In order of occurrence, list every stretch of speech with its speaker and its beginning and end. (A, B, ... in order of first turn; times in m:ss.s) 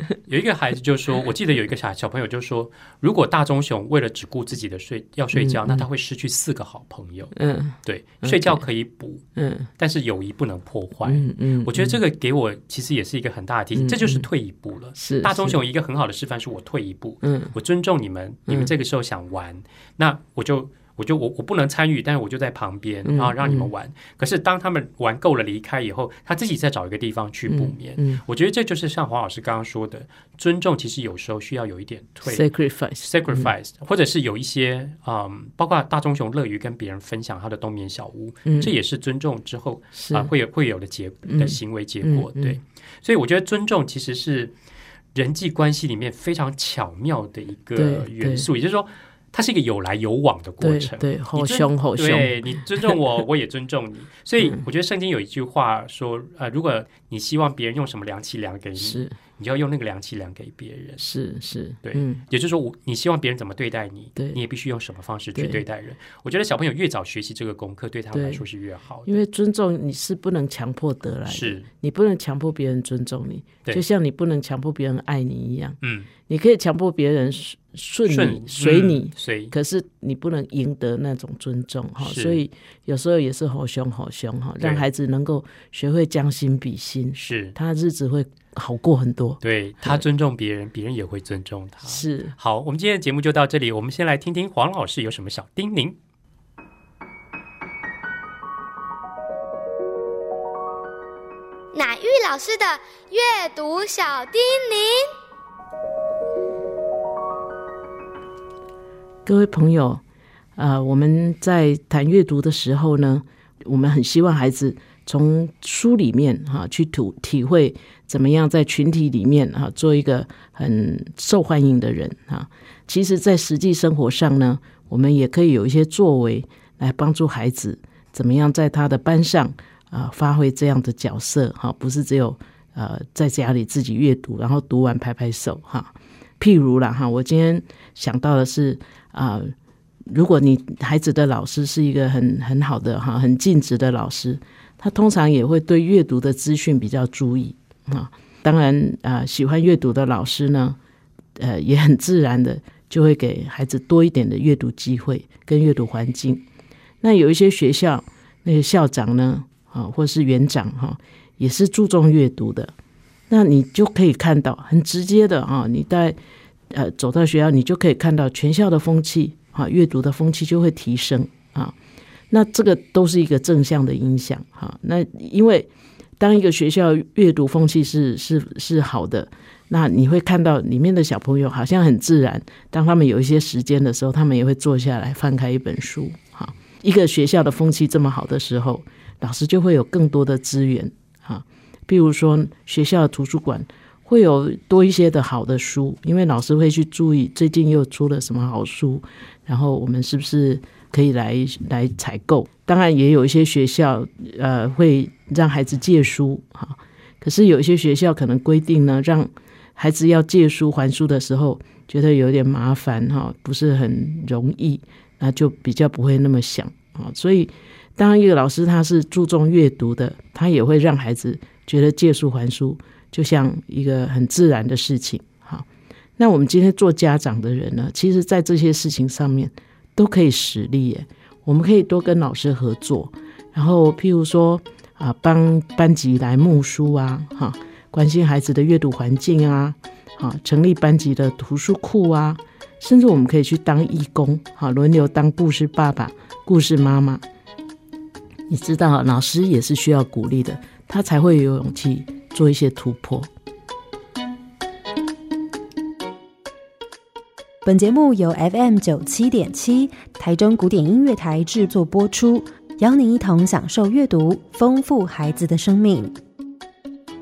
0:00.3-0:09.2 A
0:05.3-0:05.9 B
0:07.4-0:08.6 B
0:09.4-0:09.7 B
0:09.8-0:32.5 A
0:11.0-0:12.0 B
0:13.8-0:14.3 B
0:15.0-0:15.6 B
0:17.2-0:17.6 B
0:23.0-0:23.7 B
0:27.5-0:28.2 B
0:32.3-0:33.5 B
0:33.0-0:44.5 A
0:38.4-0:38.7 B
0:40.0-0:40.3 B
0:41.2-0:42.6 B
0:45.1-1:01.0 A
0:47.8-0:48.5 B
0:50.6-0:52.9 B
0:58.8-0:59.2 B
1:01.0-1:02.2 B
1:01.8-1:09.1 A
1:05.4-1:05.6 B
1:08.1-1:08.4 B
1:09.0-1:30.0 B
1:11.3-1:11.7 A
1:15.8-1:16.1 A
1:18.1-1:19.5 A
1:22.0-1:22.4 A
1:24.6-1:24.9 A
1:27.2-1:27.6 A
1:29.4-1:36.0 A
1:31.9-1:32.4 B
1:41.7-1:45.1 C
1:49.3-1:50.0 B
1:50.6-2:19.6 B
2:20.1-2:30.8 B
2:31.4-2:36.4 B
2:37.0-2:42.7 B
2:43.3-2:46.2 B
2:46.7-2:51.8 B
2:52.3-3:45.7 B
3:46.2-4:07.2 B
4:08.5-4:13.3 B
4:17.6-4:26.2 D